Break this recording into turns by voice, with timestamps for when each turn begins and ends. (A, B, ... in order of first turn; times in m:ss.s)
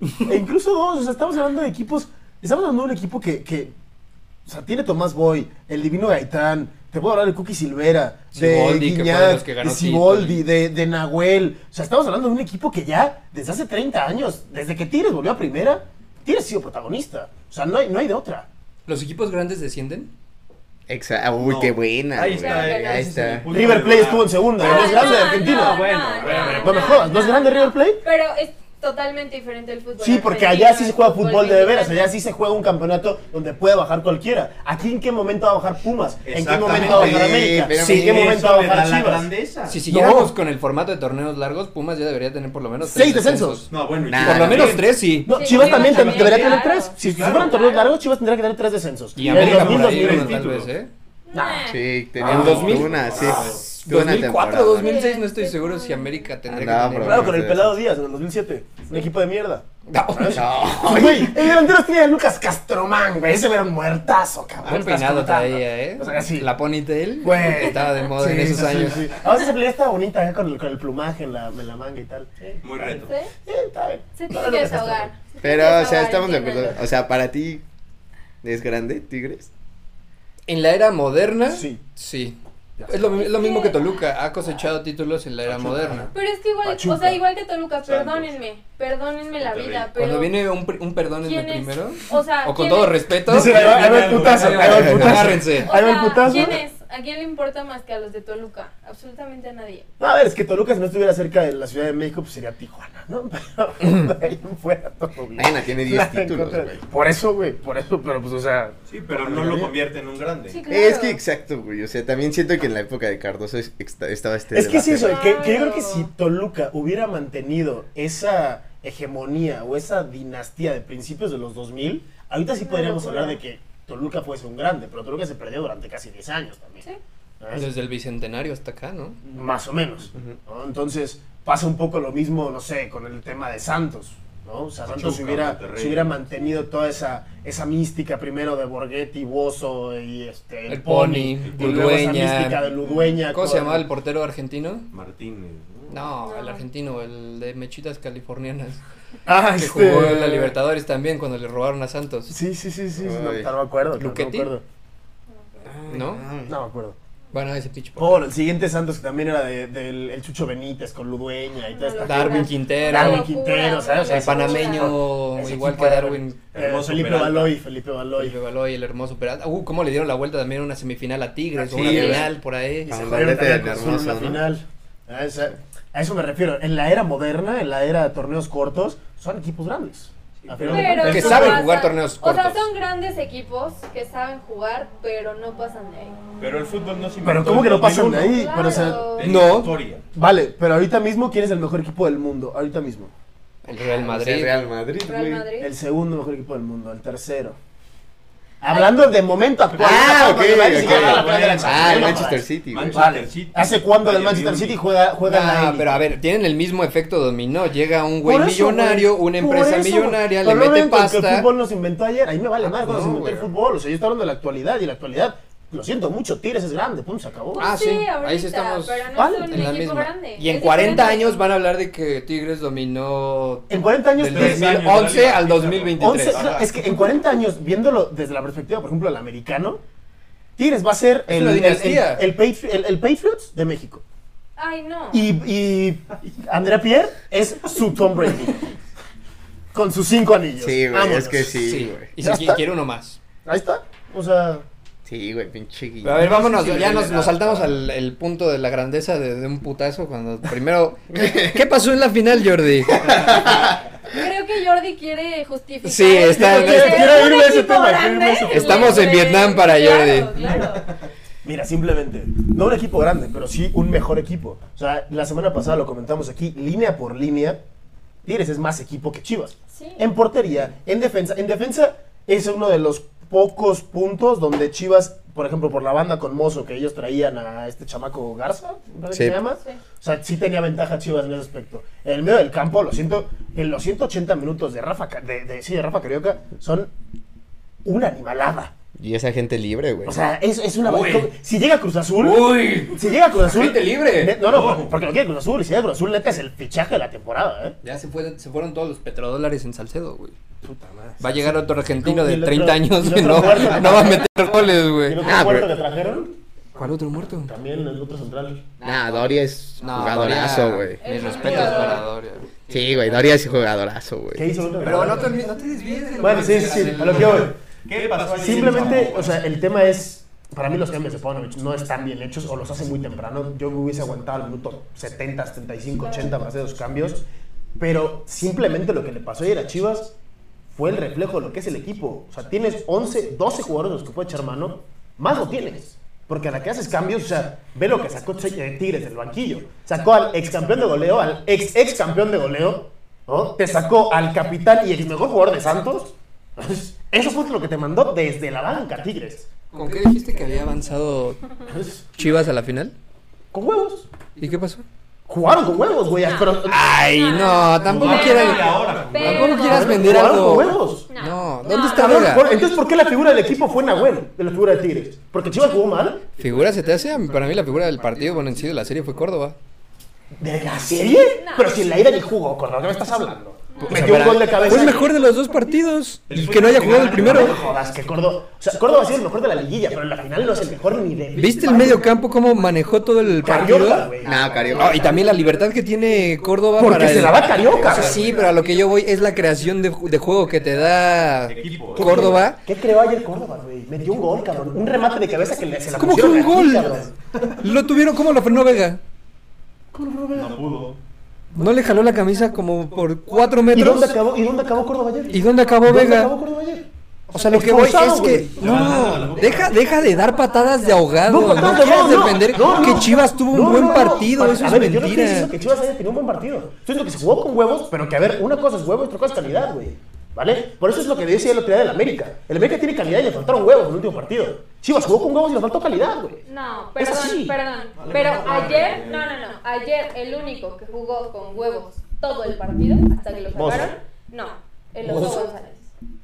0:00.2-0:03.7 A
0:04.5-0:18.5 A
0:08.3-0:10.4 B
0:18.9-0:20.1 B
0:20.9-0:23.5 C
0:21.4-0:27.1 D
0:22.3-0:23.3 E
0:23.5-0:28.0 A
0:24.6-0:32.1 E
0:30.0-0:39.3 A
0:36.2-0:39.8 D
0:36.7-0:38.4 C
0:39.7-0:46.6 B
0:39.9-0:40.3 A
0:42.8-0:43.7 A
0:43.7-0:44.8 D
0:44.1-0:44.8 C
0:44.6-0:50.5 A
0:45.3-0:48.0 E
0:47.0-0:47.6 D
0:49.2-0:50.9 B
0:49.3-0:50.7 D
0:51.3-0:51.9 E
0:51.3-0:51.6 A
0:51.7-0:54.9 C
0:52.2-0:53.7 D
0:52.2-0:57.4 B
0:54.6-0:56.2 E
0:56.5-0:57.8 C
0:57.0-1:06.5 A
0:59.9-1:00.6 B
1:00.3-1:01.5 C
1:04.6-1:09.1 B
1:07.2-1:15.1 A
1:12.6-1:13.1 D
1:13.0-1:13.3 E
1:14.2-1:16.8 E
1:15.4-1:17.6 C
1:18.4-1:19.5 C
1:20.5-1:26.1 B
1:21.5-1:21.8 A
1:23.2-1:23.8 E
1:25.5-1:26.1 A
1:26.1-1:30.4 E
1:26.6-1:27.2 A
1:27.8-1:28.3 D
1:29.4-1:29.9 D
1:30.0-1:33.6 B
1:31.2-1:33.1 E
1:33.3-1:36.6 A
1:33.3-1:35.2 D
1:34.2-1:35.7 B
1:35.6-1:39.9 E
1:40.0-1:49.7 A
1:45.4-1:46.8 C
1:48.9-1:50.6 D
1:50.5-1:51.2 E
1:50.7-1:55.2 C
1:54.5-2:06.8 A
1:55.0-1:56.1 E
2:02.6-2:03.4 E
2:07.4-2:07.7 A
2:07.5-2:09.2 B
2:09.2-2:23.9 A
2:14.8-2:16.2 D
2:20.7-2:22.6 B
2:21.5-2:21.8 D
2:22.9-2:23.2 E
2:23.3-2:24.9 B
2:24.9-2:26.0 D
2:25.9-2:28.8 B
2:26.2-2:26.6 E
2:29.3-2:30.5 A
2:29.6-2:32.4 B
2:32.3-2:34.6 A
2:33.0-2:33.5 C
2:34.0-2:34.5 B
2:35.6-2:36.5 C
2:35.9-2:36.3 B
2:36.5-2:37.0 A
2:37.3-2:38.2 B
2:38.0-2:48.4 A
2:41.7-2:45.0 E
2:42.0-2:43.3 B
2:44.0-2:46.4 B
2:46.5-2:47.6 D
2:48.2-2:52.9 B
2:51.6-2:52.3 D
2:51.8-2:52.2 C
2:51.8-2:52.2 E
2:52.9-3:01.7 A
2:52.9-2:54.4 C
3:00.4-3:01.0 D
3:00.6-3:06.2 E
3:01.0-3:02.6 B
3:06.4-3:10.0 D
3:07.2-3:09.1 A
3:08.3-3:09.3 E
3:09.2-3:09.7 B
3:10.1-3:13.1 A
3:13.6-3:14.6 B
3:13.9-3:15.5 C
3:15.0-3:15.7 E
3:15.6-3:17.6 A
3:18.6-3:26.0 A
3:18.7-3:19.0 E
3:19.8-3:23.1 C
3:19.9-3:24.8 D
3:25.2-3:31.5 B
3:28.2-3:37.7 A
3:32.6-3:33.5 B
3:37.5-3:41.4 E
3:37.6-3:46.5 B
3:39.2-3:39.7 A
3:43.7-3:44.9 A
3:44.2-3:46.8 D
3:46.0-3:49.8 A
3:50.6-3:54.0 A
3:51.3-3:52.2 B
3:54.6-3:55.3 E
3:55.1-3:58.8 A
3:59.7-4:01.6 A
4:00.6-4:02.1 C
4:01.6-4:03.2 B
4:02.2-4:02.6 A
4:03.4-4:04.6 A
4:05.0-4:07.7 C
4:06.0-4:13.2 B
4:11.1-4:11.6 C
4:13.0-4:13.6 C
4:14.1-4:20.9 E
4:15.8-4:17.3 B
4:16.3-4:19.0 A
4:18.5-4:20.3 B
4:21.4-4:27.6 A
4:28.2-4:46.9 A
4:29.7-4:30.0 E
4:39.1-4:39.4 C
4:47.8-4:48.7 A
4:49.0-4:50.2 C
4:50.0-4:57.8 A
4:50.8-4:51.3 B
4:52.2-4:54.4 B
4:54.4-4:54.9 D
4:57.8-5:00.4 B
5:00.6-5:04.3 A
5:01.2-5:05.2 B
5:05.0-5:06.4 A
5:05.2-5:05.7 C
5:06.8-5:07.5 B
5:07.5-5:08.7 A
5:08.8-5:11.0 C
5:09.8-5:12.5 B
5:11.0-5:12.0 E
5:12.7-5:14.5 C
5:14.3-5:15.5 A
5:14.8-5:17.5 B
5:16.2-5:17.6 A
5:17.0-5:19.4 D
5:18.4-5:27.3 A
5:27.8-5:30.2 A
5:30.7-5:49.5 A
5:49.7-5:51.4 B
5:51.7-5:52.0 A
5:52.2-5:53.0 B
5:53.5-5:54.1 A
5:54.4-5:54.8 B
5:55.3-5:56.9 A
5:56.2-5:56.6 E
5:56.7-6:02.5 B
5:57.1-6:00.1 E
5:57.8-6:00.0 D
5:59.6-6:01.1 A
6:01.1-6:02.4 E
6:01.7-6:06.3 A
6:06.4-6:09.6 B
6:10.4-6:15.1 A
6:11.4-6:11.8 E
6:13.7-6:15.0 E
6:13.8-6:17.6 B
6:16.3-6:17.9 D
6:16.7-6:22.1 A
6:21.4-6:24.1 B
6:23.4-6:25.1 A
6:24.2-6:25.2 C
6:24.8-6:32.6 B
6:26.8-6:28.4 A
6:27.6-6:28.3 D
6:31.5-6:32.4 D
6:32.0-6:37.2 A
6:36.0-6:36.9 B
6:37.6-6:39.0 B
6:39.9-6:40.7 A
6:40.3-6:41.0 D
6:41.5-6:44.2 B
6:43.7-6:48.8 A
6:45.3-6:46.3 B
6:47.3-6:55.5 B
6:48.6-6:49.9 D
6:51.3-7:06.4 A
7:06.5-7:15.9 E
7:07.0-7:07.6 A
7:08.0-7:09.3 D
7:13.5-7:14.0 A
7:15.1-7:15.4 B